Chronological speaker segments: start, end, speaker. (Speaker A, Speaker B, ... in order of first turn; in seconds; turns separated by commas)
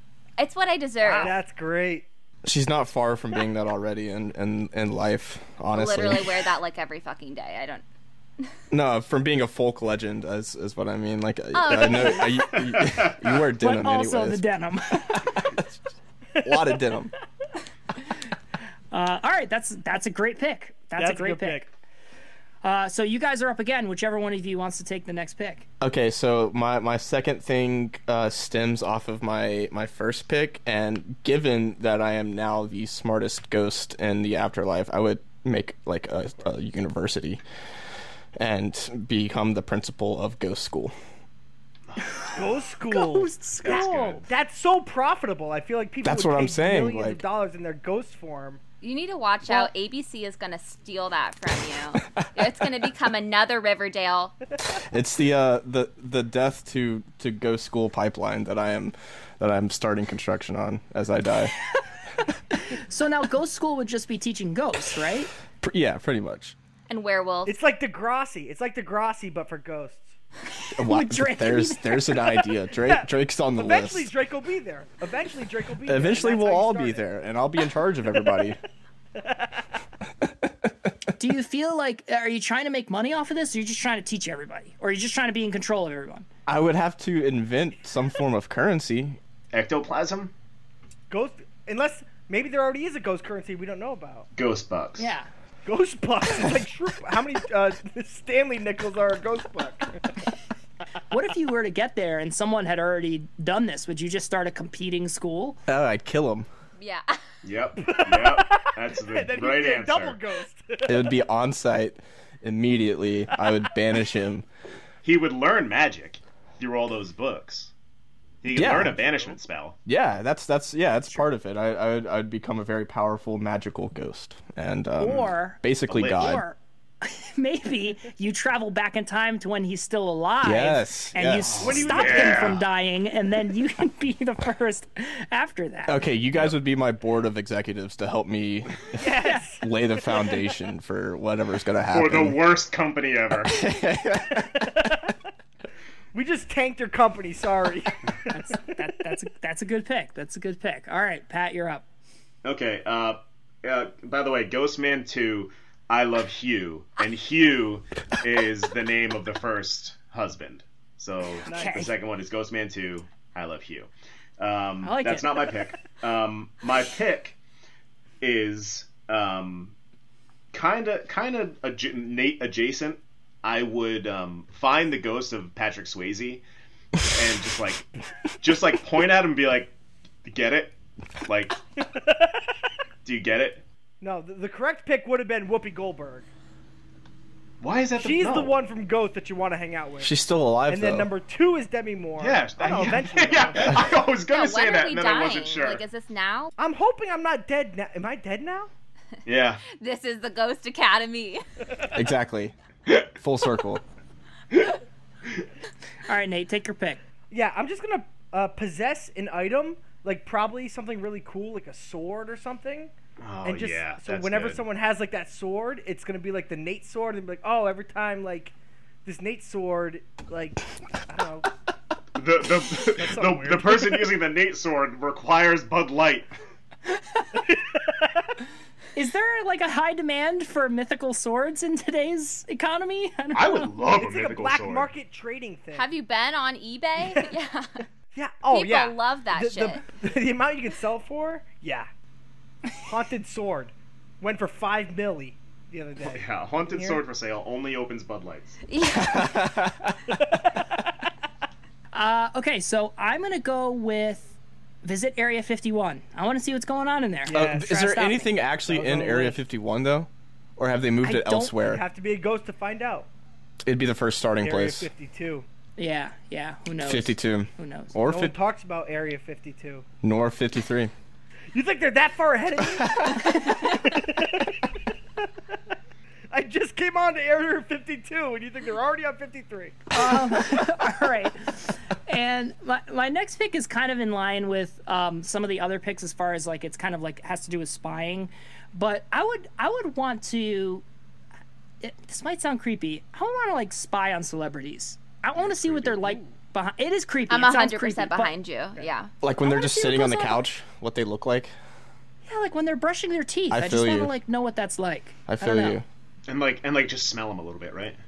Speaker A: 0.4-1.4, Speaker B: 1.0-1.3, Speaker C: 1.1-2.0, Speaker D: 2.4-6.5, Speaker A: 5.7-7.8, Speaker D: 8.7-14.4, Speaker A: 11.5-12.4, Speaker E: 12.5-13.4, Speaker B: 13.6-15.4, Speaker D: 15.1-15.6, Speaker C: 16.4-16.8, Speaker D: 16.4-17.1, Speaker B: 18.9-21.6, Speaker C: 21.0-21.7, Speaker B: 22.6-25.7, Speaker D: 25.8-37.4, Speaker D: 38.4-40.9, Speaker E: 41.9-42.6, Speaker C: 42.3-48.6, Speaker B: 42.9-44.2, Speaker E: 43.6-44.2, Speaker D: 46.0-47.2, Speaker A: 48.8-54.3, Speaker D: 54.8-61.5, Speaker B: 62.5-65.3, Speaker D: 65.6-66.5, Speaker A: 66.9-67.5, Speaker C: 67.5-70.1, Speaker D: 70.8-74.1, Speaker B: 70.8-72.5, Speaker C: 72.8-77.0, Speaker D: 75.8-78.6, Speaker C: 79.2-79.5, Speaker D: 80.2-80.9, Speaker B: 81.2-86.3, Speaker D: 86.5-89.2, Speaker E: 89.5-90.3, Speaker C: 91.1-94.3, Speaker E: 94.3-95.1, Speaker B: 95.0-95.3, Speaker C: 95.7-100.1, Speaker B: 101.1-105.6, Speaker D: 105.7-106.5, Speaker A: 106.8-107.2, Speaker E: 107.4-110.2, Speaker C: 107.8-111.1, Speaker D: 110.8-114.5, Speaker E: 115.0-117.7, Speaker E: 118.4-119.8, Speaker D: 118.5-119.0, Speaker D: 119.8-126.4, Speaker B: 125.0-136.0, Speaker E: 125.9-126.4, Speaker D: 130.4-131.9, Speaker E: 131.4-132.6, Speaker C: 131.6-132.6, Speaker D: 135.9-142.4, Speaker C: 138.9-139.7, Speaker B: 139.2-139.5, Speaker E: 141.9-143.5, Speaker D: 143.5-144.6, Speaker C: 144.4-145.1, Speaker C: 146.1-148.4, Speaker B: 148.3-151.8, Speaker E: 152.4-167.3, Speaker C: 161.4-161.8, Speaker B: 161.4-161.9, Speaker B: 164.8-165.4, Speaker E: 168.2-169.7, Speaker E: 170.5-176.4, Speaker E: 177.0-177.9, Speaker E: 178.4-179.7, Speaker E: 180.2-181.6, Speaker C: 181.9-182.3, Speaker E: 183.0-183.6, Speaker C: 184.0-186.2, Speaker E: 187.6-188.6, Speaker C: 188.0-190.1, Speaker D: 190.0-191.1, Speaker C: 190.7-193.8, Speaker E: 192.2-195.8, Speaker A: 194.3-196.5, Speaker C: 196.6-198.7, Speaker E: 199.2-199.6, Speaker A: 199.6-201.4, Speaker D: 201.9-202.5, Speaker D: 203.2-203.8, Speaker B: 206.0-207.0, Speaker C: 207.3-212.9, Speaker E: 213.2-214.6, Speaker C: 213.4-218.5, Speaker C: 219.0-221.5, Speaker E: 222.2-226.3, Speaker C: 222.9-224.1, Speaker B: 227.0-227.3, Speaker C: 227.5-228.3, Speaker B: 228.9-233.7, Speaker E: 233.3-234.9, Speaker C: 233.9-235.9, Speaker A: 235.7-237.8, Speaker C: 238.1-241.9, Speaker A: 238.5-239.8, Speaker C: 242.8-247.0, Speaker E: 246.0-248.6, Speaker A: 248.7-249.5, Speaker D: 249.0-250.3, Speaker B: 251.9-258.3, Speaker C: 257.3-257.8, Speaker D: 257.3-261.8, Speaker C: 258.6-259.4, Speaker B: 261.0-261.5, Speaker C: 261.6-263.1, Speaker D: 263.6-264.9, Speaker C: 264.4-265.4, Speaker B: 265.8-267.9, Speaker D: 266.8-268.3, Speaker C: 268.0-269.9, Speaker D: 270.0-270.9, Speaker C: 271.5-274.7, Speaker D: 272.8-273.2, Speaker B: 273.2-273.7, Speaker C: 276.3-280.6, Speaker B: 279.9-290.8, Speaker B: 291.8-298.3, Speaker C: 296.0-296.3, Speaker A: 297.3-299.1, Speaker D: 299.2-301.5, Speaker B: 299.4-300.4, Speaker B: 302.2-305.8, Speaker D: 303.5-304.1, Speaker D: 305.3-305.8, Speaker E: 306.3-308.0